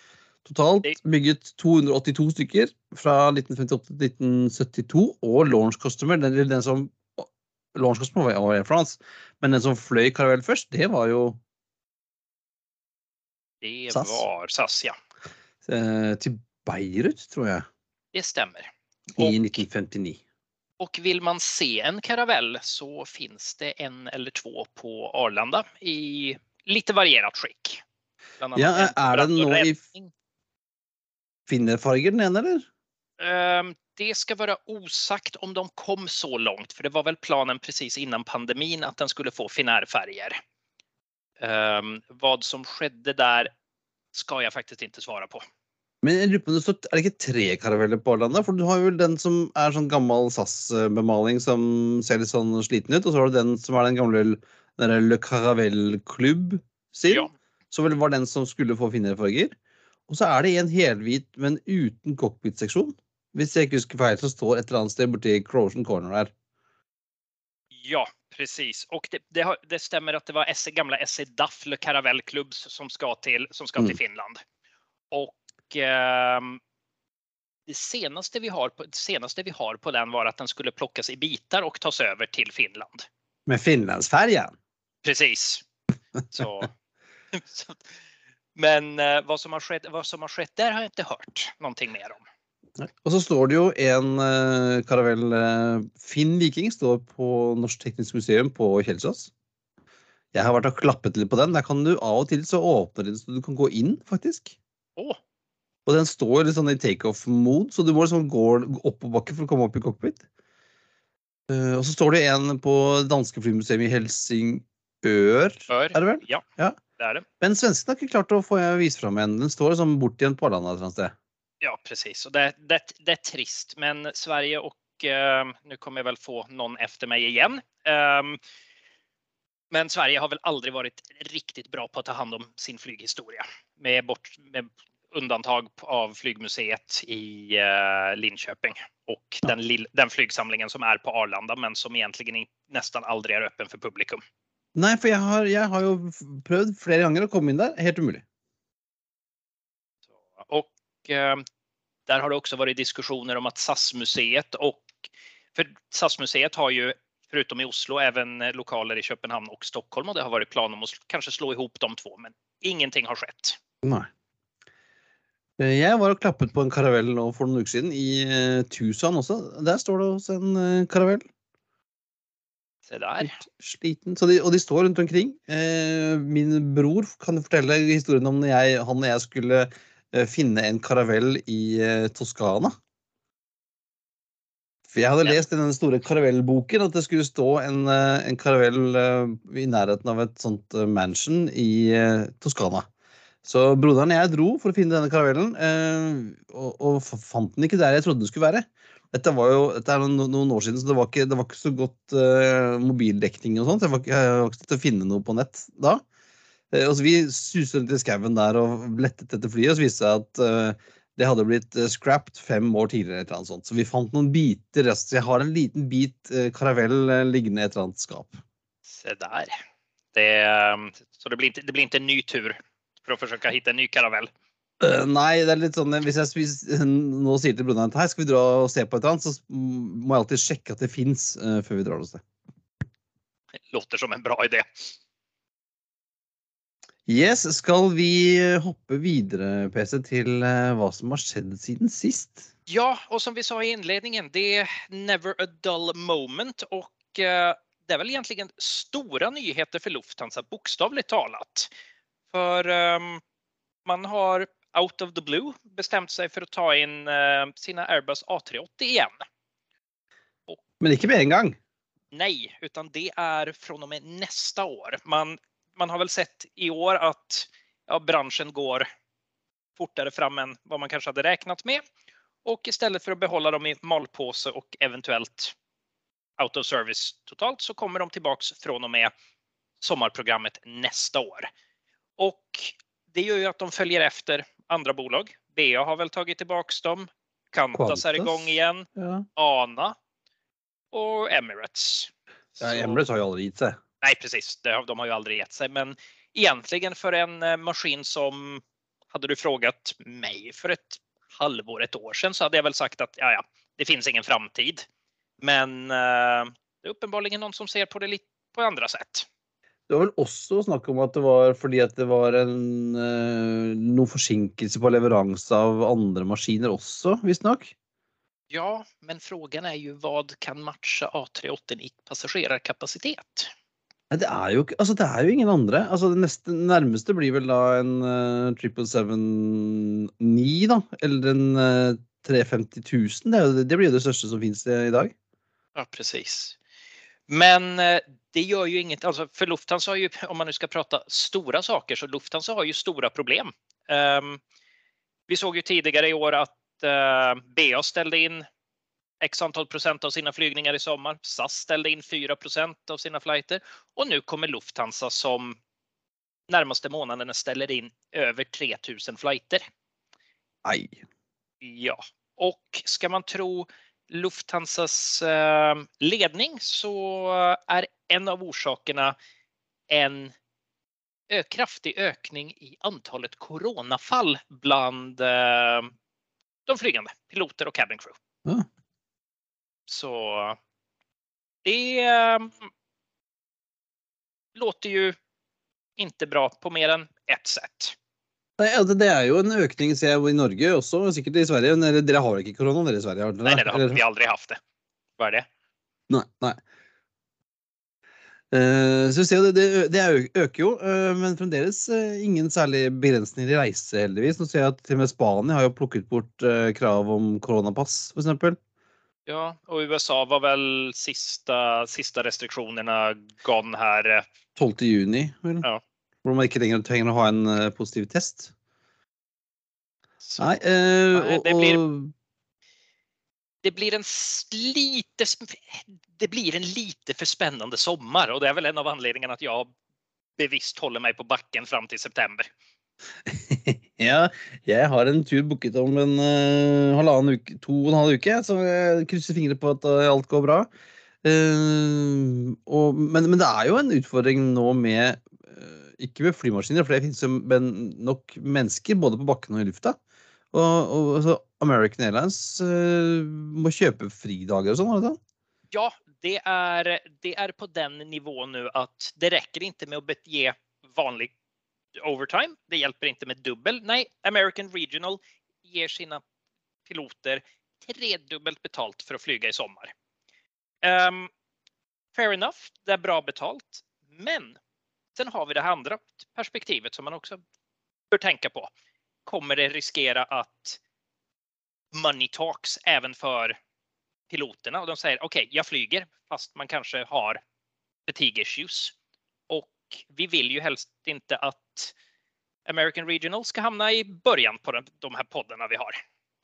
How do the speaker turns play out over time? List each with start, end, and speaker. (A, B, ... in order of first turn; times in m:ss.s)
0:00.4-0:11.4 A
0:13.6-0:15.0 B
0:13.9-0:14.2 A
0:15.6-0:17.6 A
0:18.1-0:19.6 B
0:19.2-0:20.2 A
0:20.8-0:27.8 B
0:28.4-0:30.1 B
0:28.6-0:29.8 A
0:31.5-0:32.7 A
0:33.2-0:40.4 B
0:41.4-0:43.5 B
0:44.1-0:45.4 B
0:46.0-0:59.5 A
1:00.1-1:06.3 A
1:07.8-1:14.4 B
1:15.1-1:16.6 B
1:17.7-1:23.1 B
1:23.5-1:24.6 A
1:25.0-1:25.6 B
1:26.3-1:26.7 B
1:27.3-1:27.9 B
1:28.6-1:32.2 B
1:32.8-1:39.3 A
1:40.3-1:44.6 A
1:45.9-1:50.2 A
1:51.5-1:56.8 A
1:55.7-1:56.4 B
1:57.0-1:57.2 B
1:57.4-2:01.1 A
2:01.6-2:08.4 B
2:09.7-2:24.2 B
2:24.8-2:28.2 A
2:30.5-2:31.4 B
2:32.1-2:35.0 B
2:35.6-2:43.6 B
2:43.8-2:44.1 A
2:45.6-2:51.2 A
2:52.9-2:53.4 B
2:53.2-3:02.8 A
3:04.9-3:12.9 A
3:13.4-3:26.0 A
3:26.7-3:38.4 A
3:38.9-3:39.6 B
3:40.1-3:44.3 B
3:44.8-3:52.2 A
3:53.7-3:54.9 B
3:57.1-4:02.5 A
4:02.7-4:11.7 B
4:12.3-4:13.2 B
4:13.8-4:19.2 B
4:20.8-4:21.6 A
4:22.1-4:28.8 B
4:29.8-4:31.8 B
4:32.4-4:35.5 B
4:36.4-4:39.1 B
4:39.8-4:41.5 B
4:42.2-4:50.0 B
4:47.8-4:49.3 A
4:50.9-4:53.0 B
4:52.6-4:53.8 A
4:54.0-5:04.8 B
5:05.4-5:09.3 B
5:09.9-5:17.7 A
5:18.5-5:23.5 B
5:24.1-5:35.1 A
5:35.8-5:36.6 B
5:37.3-5:44.4 B
5:45.3-5:48.4 B
5:49.2-5:55.6 B
5:56.5-5:59.6 B
6:00.6-6:01.0 A
6:01.6-6:09.2 B
6:09.9-6:10.3 B
6:11.3-6:15.9 B
6:16.7-6:18.2 B
6:19.9-6:20.6 B
6:21.6-6:22.7 B
6:24.6-6:25.2 B
6:26.0-6:28.0 B
6:28.6-6:34.0 A
6:33.4-6:34.6 B
6:35.2-6:35.5 B
6:36.1-6:36.6 A
6:38.5-6:48.6 A
6:49.3-6:54.2 B
6:54.6-6:55.7 A
6:56.2-6:58.5 A
7:00.2-7:00.6 B
7:00.4-7:02.1 A
7:01.1-7:01.8 B
7:03.6-7:09.7 B
7:10.4-7:12.5 B
7:13.3-7:20.7 A
7:21.2-7:30.0 A
7:30.5-7:35.2 A
7:35.7-7:41.3 B
7:42.0-7:46.2 B
7:46.9-7:49.9 B
7:50.8-7:51.3 B
7:52.2-7:54.6 B
7:55.2-7:57.4 B
7:58.1-7:58.7 B
7:59.3-8:00.8 B
8:01.9-8:03.6 B
8:04.3-8:07.4 B
8:08.1-8:09.0 B
8:09.5-8:11.9 B
8:12.7-8:16.0 B